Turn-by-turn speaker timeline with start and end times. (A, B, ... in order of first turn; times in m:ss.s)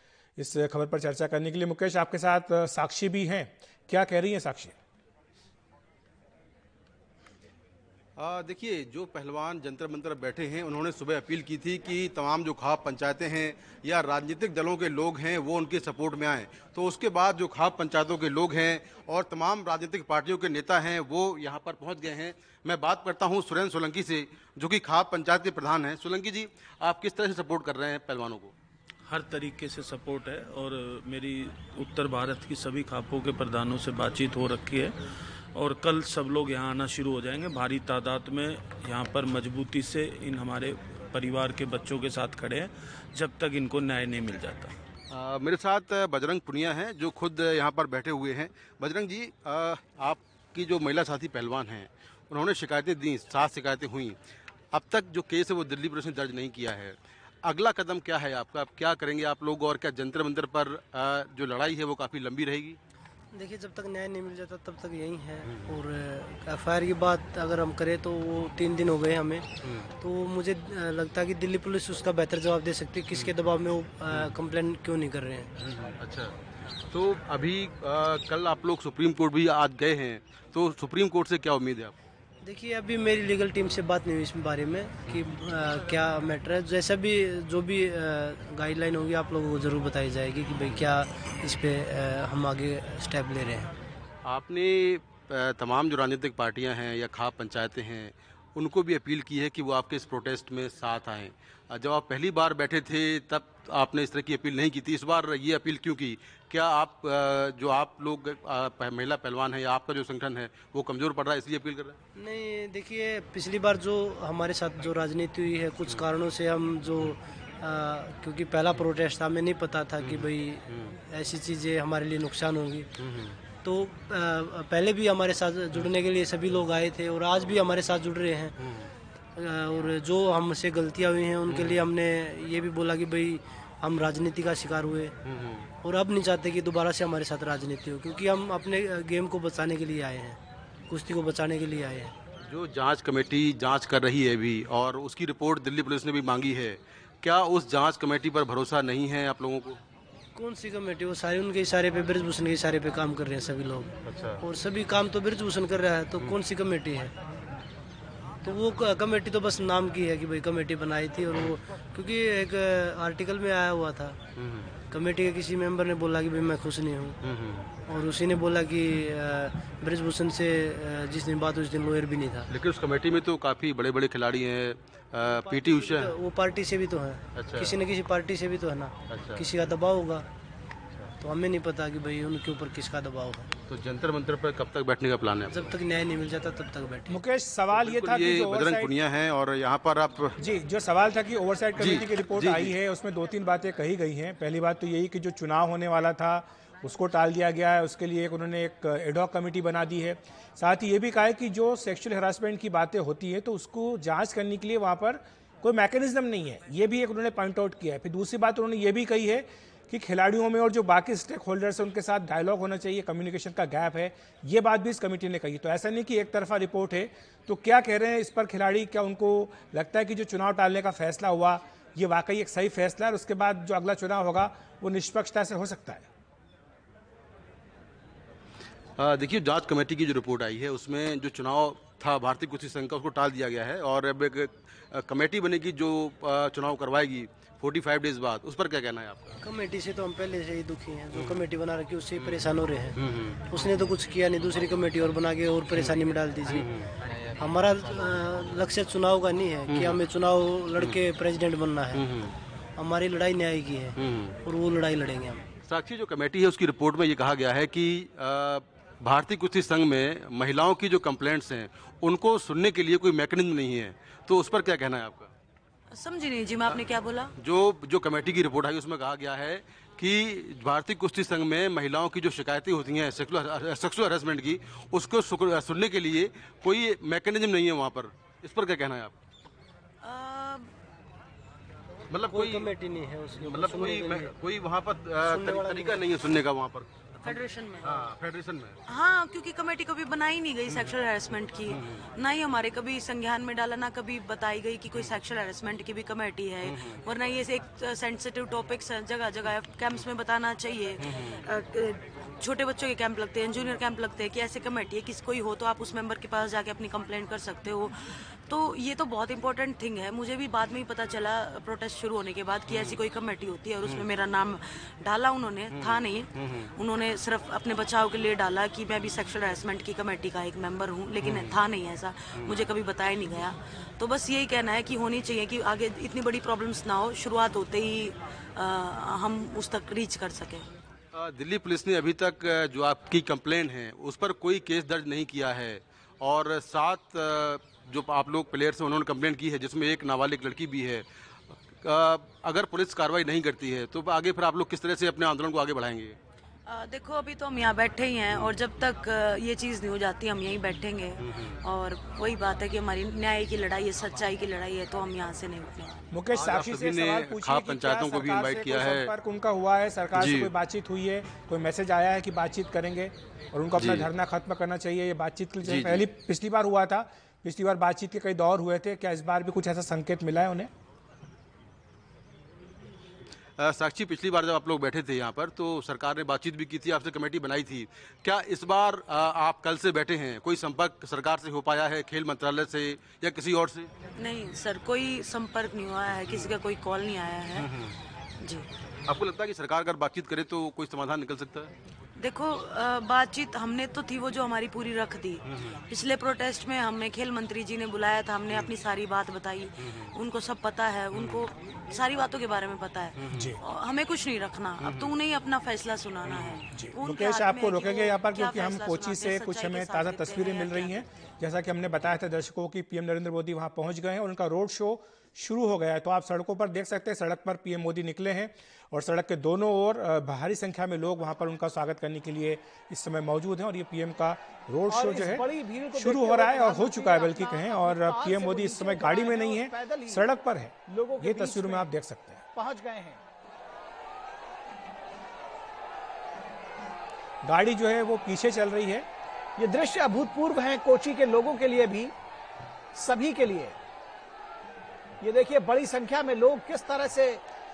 0:00.4-0:04.8 A
0:08.2-0:28.6 B
0:29.0-0:35.0 C
0:35.5-0:44.8 C
0:45.1-0:54.2 B
0:54.7-1:02.8 B
1:03.3-1:09.5 D
1:05.4-1:05.8 B
1:09.6-1:09.9 B
1:10.0-1:15.5 D
1:15.6-1:21.9 B
1:22.4-1:33.7 D
1:34.2-1:52.0 B
1:52.2-2:02.9 D
2:00.0-2:01.0 B
2:03.0-2:03.4 B
2:03.6-2:08.6 D
2:08.6-2:08.9 B
2:09.4-2:15.2 D
2:11.5-2:11.8 B
2:15.2-2:15.7 B
2:15.8-2:20.4 D
2:20.9-2:22.1 D
2:22.4-2:29.8 B
2:30.4-2:37.1 D
2:34.1-2:34.4 B
2:38.4-2:44.2 D
2:44.4-2:44.7 B
2:44.9-2:47.2 D
2:47.2-2:47.7 B
2:47.9-2:52.5 D
2:52.5-2:56.2 B
2:55.4-3:00.2 D
2:57.4-2:57.8 B
2:59.1-2:59.4 B
3:01.2-3:03.5 D
3:03.7-3:05.7 B
3:05.5-3:07.2 D
3:07.1-3:08.9 A
3:07.7-3:10.4 B
3:10.4-3:46.1 A
3:11.8-3:12.7 B
3:49.0-3:59.4 B
3:59.4-4:03.0 D
4:01.1-4:01.4 B
4:02.2-4:03.9 B
4:03.5-4:06.7 D
4:05.7-4:07.1 B
4:07.4-4:12.0 D
4:09.7-4:10.0 B
4:11.9-4:12.4 B
4:12.8-4:15.5 D
4:14.0-4:14.4 B
4:15.6-4:25.3 B
4:25.9-4:27.3 E
4:27.4-4:39.2 B
4:40.0-4:40.7 E
4:42.1-4:42.7 B
4:42.3-4:44.3 D
4:43.4-4:48.8 B
4:45.2-4:46.0 D
4:47.2-4:48.0 E
4:48.9-5:30.7 E
4:50.7-4:51.0 B
4:51.7-4:52.1 B
4:56.6-4:57.0 B
5:01.0-5:01.4 B
5:12.7-5:13.0 B
5:15.7-5:16.7 B
5:21.2-5:21.6 B
5:22.4-5:22.6 B
5:31.1-5:41.1 B
5:41.7-5:46.2 B
5:46.7-5:56.0 E
5:51.2-5:51.6 B
5:56.1-6:10.7 A
5:56.3-5:59.1 B
6:00.2-6:00.5 B
6:03.8-6:04.1 B
6:05.6-6:06.0 B
6:13.6-6:23.9 B
6:24.2-6:27.7 E
6:26.3-6:26.5 B
6:27.6-6:28.0 B
6:29.1-6:31.7 B
6:32.2-6:51.1 E
6:35.5-6:35.8 B
6:39.8-6:40.1 B
6:41.1-6:41.5 B
6:43.2-6:43.6 B
6:43.3-6:43.6 A
6:44.8-6:45.2 B
6:46.2-6:46.7 B
6:46.7-7:12.4 A
7:04.9-7:10.3 F
7:10.9-7:11.9 F
7:12.5-7:13.2 F
7:17.4-7:19.1 A
7:19.6-7:22.1 F
7:23.0-7:23.8 F
7:25.2-7:27.4 F